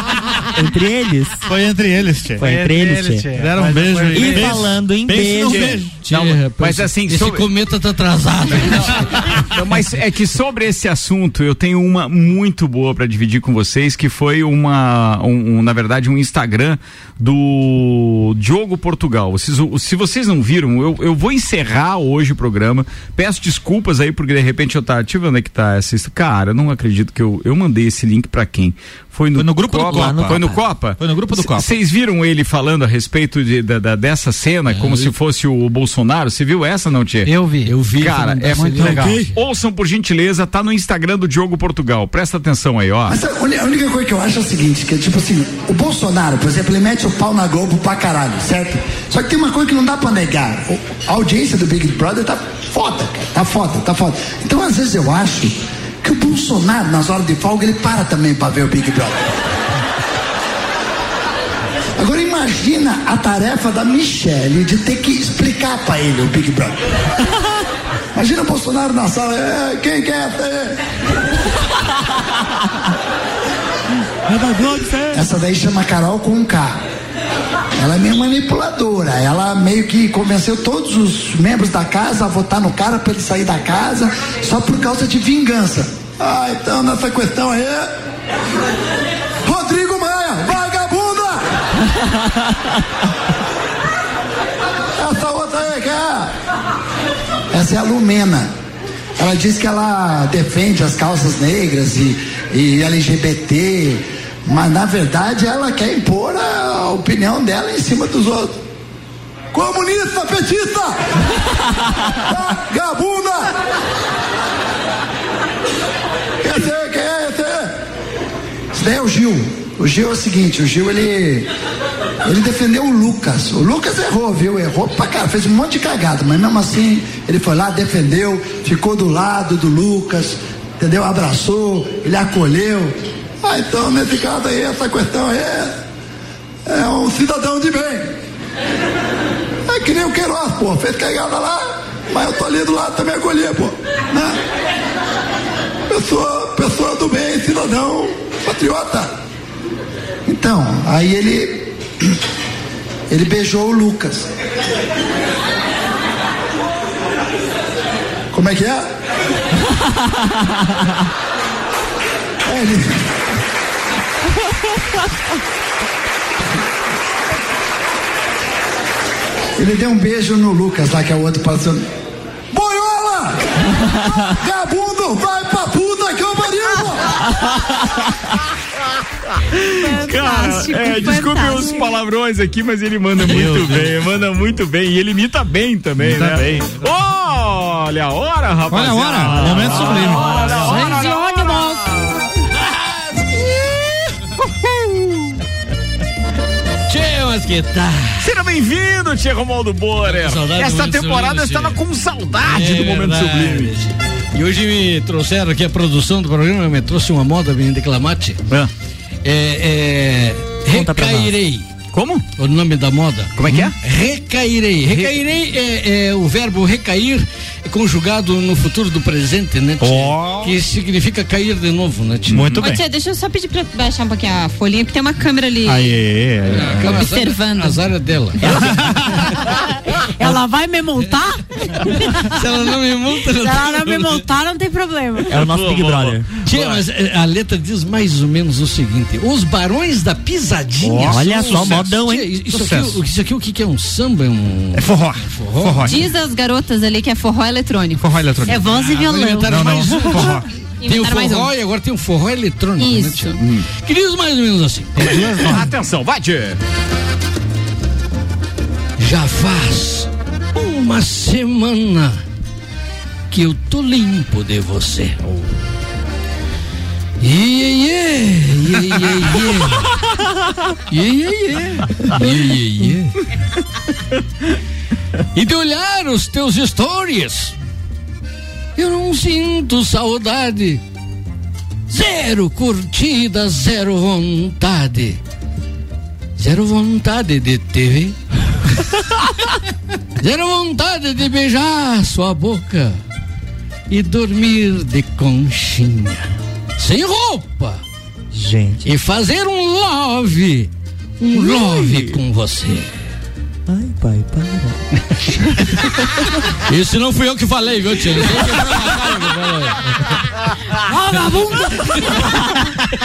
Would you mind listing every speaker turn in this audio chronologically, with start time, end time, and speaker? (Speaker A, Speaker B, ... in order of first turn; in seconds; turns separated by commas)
Speaker A: 0.5-1.4, Speaker B: 1.4-2.5, Speaker A: 2.4-3.3, Speaker C: 2.4-4.7, Speaker B: 3.3-5.9, Speaker A: 4.1-5.8, Speaker D: 5.2-7.5, Speaker E: 6.0-9.2, Speaker D: 8.6-37.3, Speaker B: 29.4-31.7, Speaker A: 29.9-30.6, Speaker E: 34.7-35.1, Speaker C: 37.2-37.8, Speaker E: 37.6-39.3, Speaker D: 37.9-43.2, Speaker C: 38.5-39.2, Speaker F: 43.1-59.3, Speaker F: 62.0-66.7, Speaker F: 68.1-70.8, Speaker A: 74.3-75.2, Speaker F: 75.1-76.8, Speaker F: 77.8-87.9, Speaker F: 89.5-91.4, Speaker F: 95.0-96.3, Speaker F: 97.5-98.5, Speaker F: 99.2-108.6, Speaker F: 109.5-111.0, Speaker F: 112.3-113.5, Speaker F: 116.4-117.8, Speaker F: 118.7-121.5, Speaker F: 122.2-135.7, Speaker F: 136.7-138.1, Speaker F: 139.7-144.4, Speaker F: 145.9-149.1, Speaker F: 150.3-151.7, Speaker F: 153.1-154.3, Speaker F: 158.3-158.9, Speaker F: 162.4-163.0, Speaker F: 169.6-171.8, Speaker F: 172.5-177.1, Speaker D: 179.6-192.1, Speaker G: 179.8-182.0, Speaker B: 183.2-184.0, Speaker B: 186.0-186.8, Speaker B: 188.7-190.7, Speaker E: 189.3-191.2, Speaker G: 190.3-192.1, Speaker E: 192.4-194.9, Speaker E: 196.9-198.3, Speaker D: 198.2-203.7, Speaker E: 200.1-201.8, Speaker E: 202.5-208.4, Speaker E: 209.2-211.7, Speaker A: 210.7-211.3, Speaker D: 211.9-212.2, Speaker E: 212.4-222.7, Speaker D: 213.3-213.8, Speaker D: 214.9-215.2, Speaker B: 219.8-220.6, Speaker B: 222.3-222.8, Speaker H: 222.6-226.0, Speaker B: 225.6-226.9, Speaker E: 226.5-228.8, Speaker H: 226.7-227.8, Speaker A: 228.4-228.8, Speaker B: 228.5-229.3, Speaker G: 230.2-232.3, Speaker E: 232.2-234.2, Speaker G: 233.3-235.4, Speaker A: 235.3-236.3, Speaker D: 235.3-236.8, Speaker E: 236.4-246.1, Speaker B: 240.8-241.9, Speaker A: 241.0-242.3, Speaker B: 242.5-243.0, Speaker B: 244.7-246.1, Speaker H: 245.8-248.1, Speaker B: 248.0-248.7, Speaker G: 248.4-250.4, Speaker E: 248.5-255.6, Speaker B: 249.4-250.5, Speaker H: 250.8-251.5, Speaker H: 252.8-253.4, Speaker D: 253.4-253.7, Speaker C: 255.0-255.7, Speaker D: 255.2-256.6, Speaker E: 259.0-262.2, Speaker E: 263.3-265.2, Speaker E: 267.2-270.1, Speaker E: 270.9-273.2, Speaker E: 275.3-277.5, Speaker E: 278.8-280.8, Speaker E: 281.9-285.2, Speaker E: 286.4-289.3, Speaker E: 290.2-293.0, Speaker E: 293.9-296.2, Speaker E: 296.8-297.8, Speaker A: 298.3-298.9, Speaker E: 298.8-302.9, Speaker A: 303.7-304.8, Speaker E: 306.7-310.2, Speaker E: 310.9-312.3